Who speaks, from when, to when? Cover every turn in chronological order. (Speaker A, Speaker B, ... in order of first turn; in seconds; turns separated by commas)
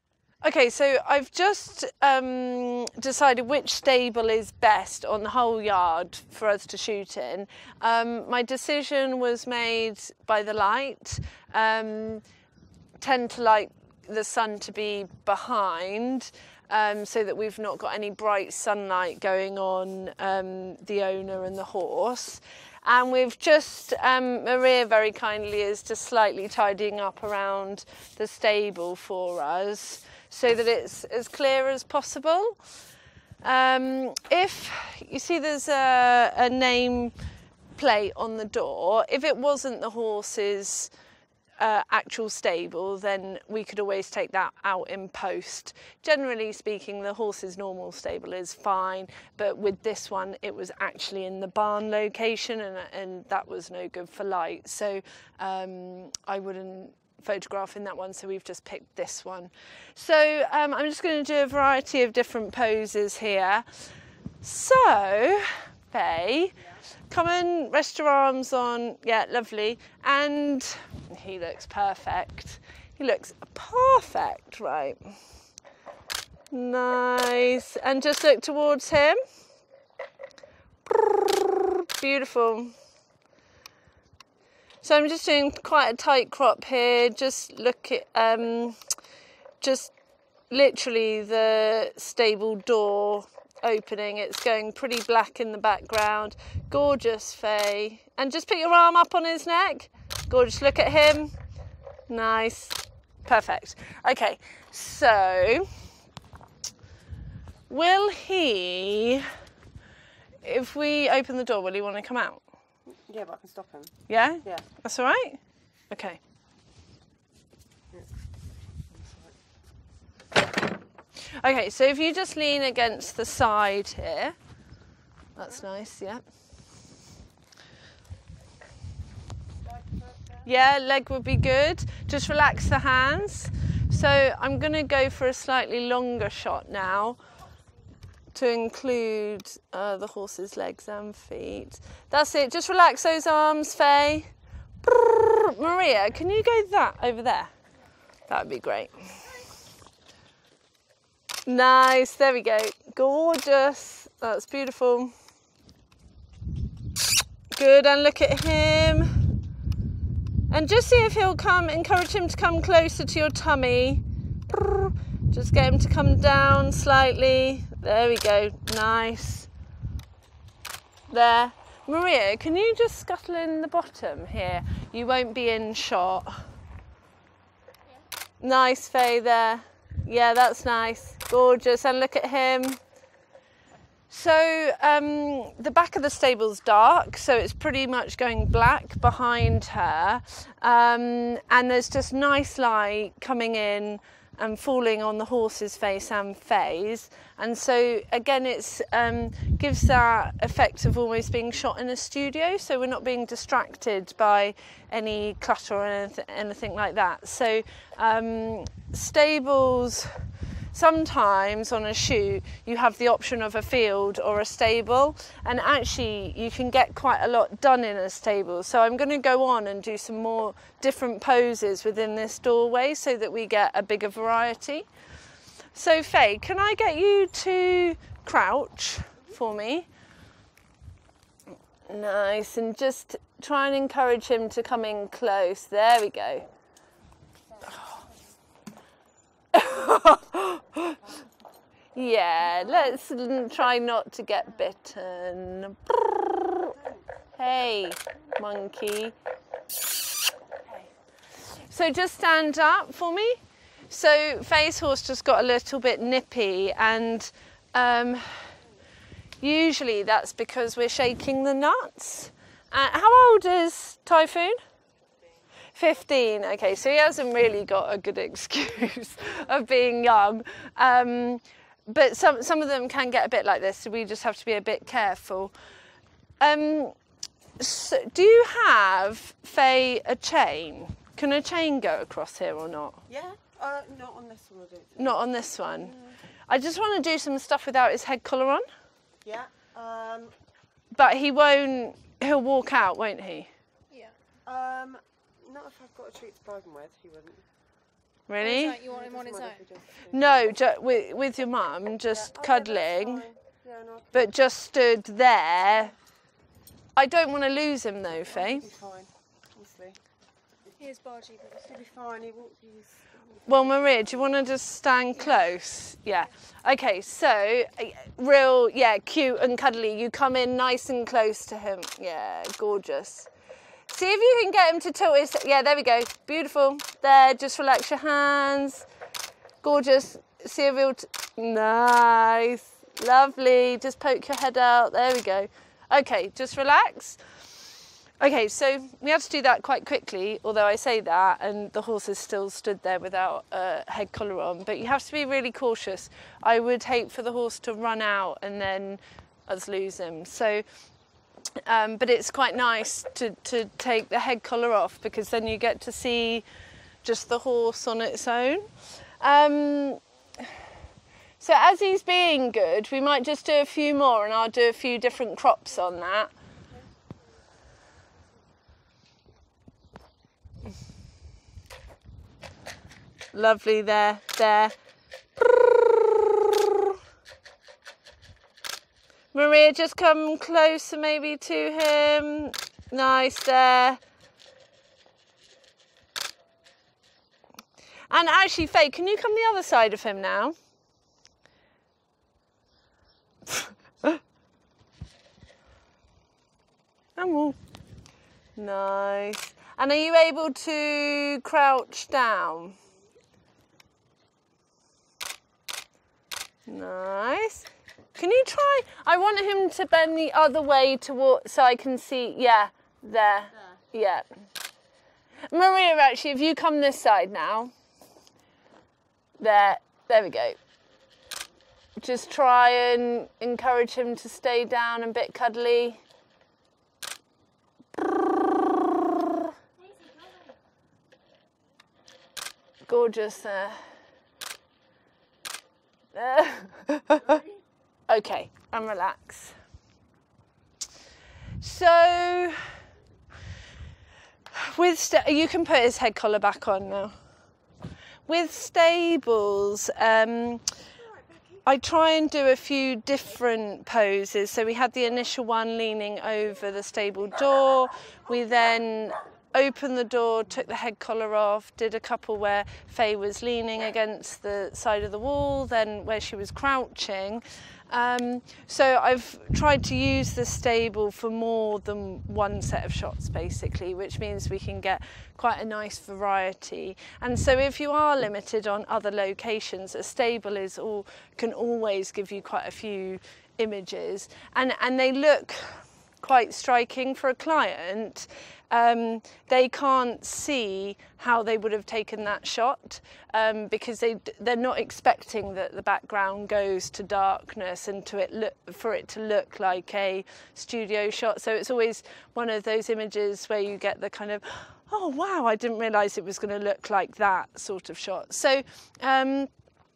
Speaker A: 0.4-12.2, Speaker A: 13.0-32.6, Speaker A: 33.4-37.1, Speaker A: 37.8-40.9, Speaker A: 41.6-63.6, Speaker A: 64.4-66.6, Speaker A: 67.1-75.2, Speaker A: 76.5-79.2, Speaker A: 80.9-82.7, Speaker A: 84.8-88.8, Speaker A: 89.6-89.9, Speaker A: 90.5-101.3, Speaker A: 102.1-105.7, Speaker A: 107.7-109.3, Speaker A: 110.4-112.4, Speaker B: 112.9-114.6, Speaker A: 114.1-115.4, Speaker A: 115.9-116.2, Speaker B: 117.9-118.2, Speaker B: 118.9-119.4, Speaker A: 121.4-124.3, Speaker A: 125.4-126.2, Speaker B: 129.6-130.5, Speaker A: 130.4-137.2, Speaker A: 138.3-144.3, Speaker A: 144.8-147.5, Speaker A: 148.3-149.3, Speaker A: 151.5-155.1, Speaker A: 157.5-159.1, Speaker A: 160.5-169.5, Speaker A: 171.1-176.3, Speaker A: 178.4-182.8, Speaker A: 184.1-210.1, Speaker A: 210.7-224.9, Speaker A: 225.7-229.9, Speaker A: 231.9-236.5, Speaker A: 239.5-241.0, Speaker A: 241.9-246.7, Speaker B: 246.7-247.1, Speaker A: 247.4-249.2, Speaker A: 251.5-258.5, Speaker A: 259.4-264.6, Speaker A: 265.8-275.5, Speaker A: 276.4-276.9, Speaker A: 277.6-283.0, Speaker B: 283.1-285.2, Speaker A: 285.0-285.9, Speaker A: 286.5-288.6, Speaker B: 289.2-290.3, Speaker A: 290.9-293.5, Speaker C: 293.9-294.2, Speaker B: 294.4-297.4, Speaker A: 298.3-298.8, Speaker C: 298.4-299.7, Speaker B: 298.8-300.5, Speaker A: 300.1-303.3, Speaker B: 302.1-304.3, Speaker A: 304.1-305.9, Speaker A: 306.9-308.6, Speaker B: 308.3-310.0, Speaker C: 310.8-311.8, Speaker B: 311.6-314.4, Speaker A: 313.5-323.3, Speaker A: 323.9-328.9, Speaker A: 329.6-337.2, Speaker A: 338.2-350.6, Speaker A: 351.7-356.4, Speaker A: 357.0-358.7, Speaker A: 359.2-360.0, Speaker A: 361.4-366.3, Speaker A: 373.3-374.7, Speaker A: 375.4-376.9, Speaker A: 379.3-384.0, Speaker A: 388.1-390.6, Speaker A: 397.2-397.6, Speaker A: 398.6-402.8, Speaker A: 406.7-414.3, Speaker A: 415.5-417.7, Speaker A: 419.4-420.6, Speaker A: 422.0-426.0, Speaker A: 432.9-433.8, Speaker A: 436.1-437.4, Speaker A: 438.1-439.6, Speaker A: 441.6-442.6, Speaker A: 444.5-447.1, Speaker A: 448.3-450.6, Speaker A: 451.6-509.5